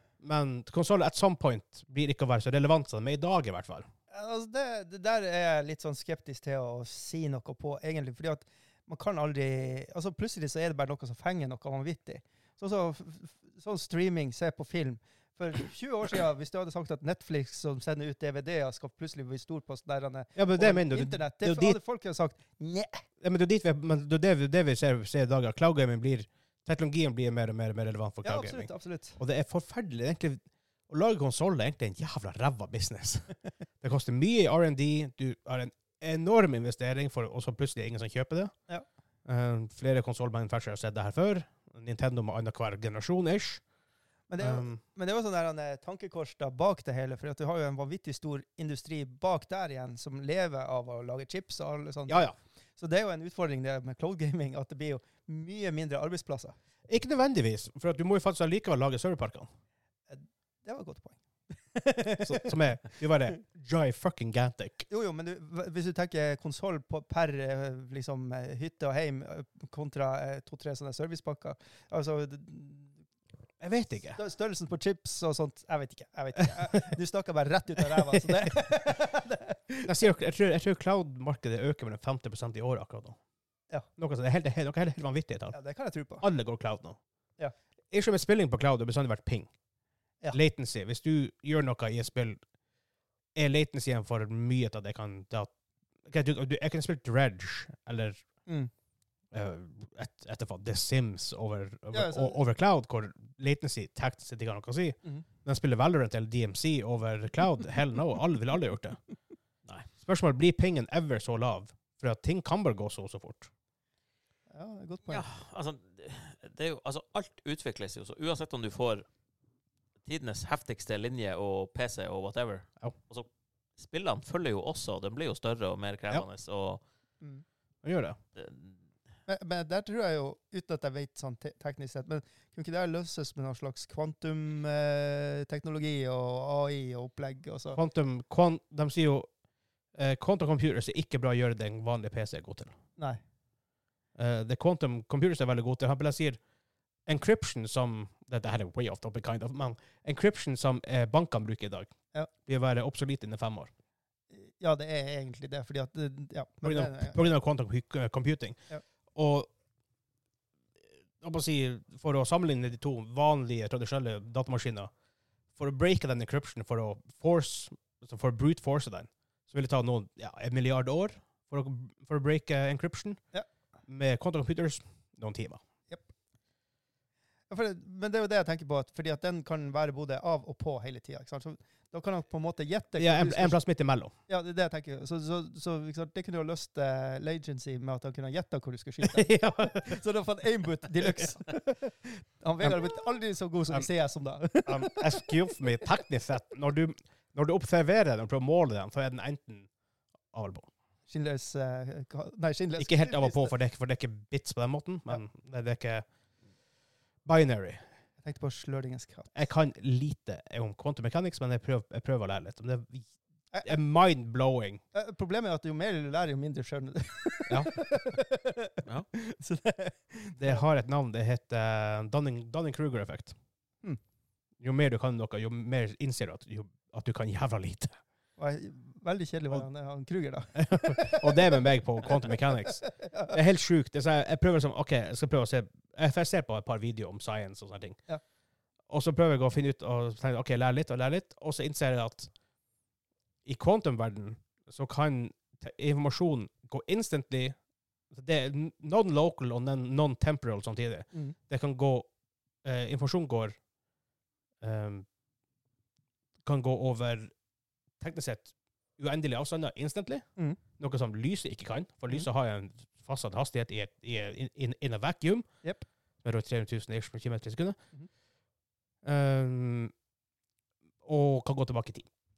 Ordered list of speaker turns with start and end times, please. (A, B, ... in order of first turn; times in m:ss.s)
0:00.2-0:03.9 A
0:04.1-0:23.0 B
0:20.4-0:21.8 A
0:23.2-0:38.5 A
0:28.2-0:29.2 B
0:39.2-0:43.6 A
0:44.3-0:52.2 B
0:44.4-0:44.8 A
0:52.1-0:52.3 A
0:52.8-0:56.5 B
0:56.9-0:59.5 A
1:00.1-1:02.6 B
1:02.2-1:04.9 A
1:04.9-1:13.0 B
1:13.6-1:14.2 A
1:14.2-1:19.9 B
1:19.8-1:23.2 A
1:24.0-1:25.6 A
1:25.5-1:26.2 B
1:26.2-1:27.0 A
1:27.9-1:29.5 A
1:30.3-1:32.4 A
1:33.4-1:35.5 A
1:36.1-1:38.2 A
1:39.3-1:49.0 A
1:41.9-1:42.4 B
1:50.0-1:53.5 A
1:54.5-1:55.2 B
1:55.1-1:59.0 C
2:00.0-2:06.8 C
2:07.8-2:08.2 A
2:08.4-2:08.8 C
2:09.3-2:17.8 B
2:17.7-2:19.3 A
2:19.9-2:22.7 A
2:24.2-2:26.4 A
2:27.0-2:31.9 A
2:32.4-2:33.7 A
2:34.3-2:37.2 B
2:36.6-2:38.6 A
2:39.1-2:39.5 A
2:41.2-2:44.9 A
2:45.6-2:53.2 A
2:53.9-2:55.6 A
2:57.5-3:03.6 B
3:03.0-3:04.1 A
3:04.3-3:15.2 B
3:09.0-3:10.0 A
3:14.6-3:19.7 A
3:20.3-3:20.7 A
3:21.1-3:23.5 B
3:22.8-3:26.0 A
3:27.2-3:27.8 A
3:28.2-3:29.3 B
3:29.3-3:33.1 A
3:33.6-3:34.8 A
3:34.9-3:40.6 B
3:37.5-3:37.8 A
3:40.4-3:43.3 A
3:44.6-3:48.0 A
3:48.4-3:51.6 B
3:50.6-3:58.0 A
3:52.1-3:53.4 B
3:58.9-4:02.3 A
4:03.4-4:07.6 A
4:08.1-4:12.1 A
4:12.6-4:13.6 A
4:14.6-4:15.1 A
4:16.4-4:17.3 A
4:18.0-4:20.2 A
4:20.8-4:25.5 A
4:26.2-4:27.8 A
4:29.0-4:29.9 A
4:31.0-4:32.1 A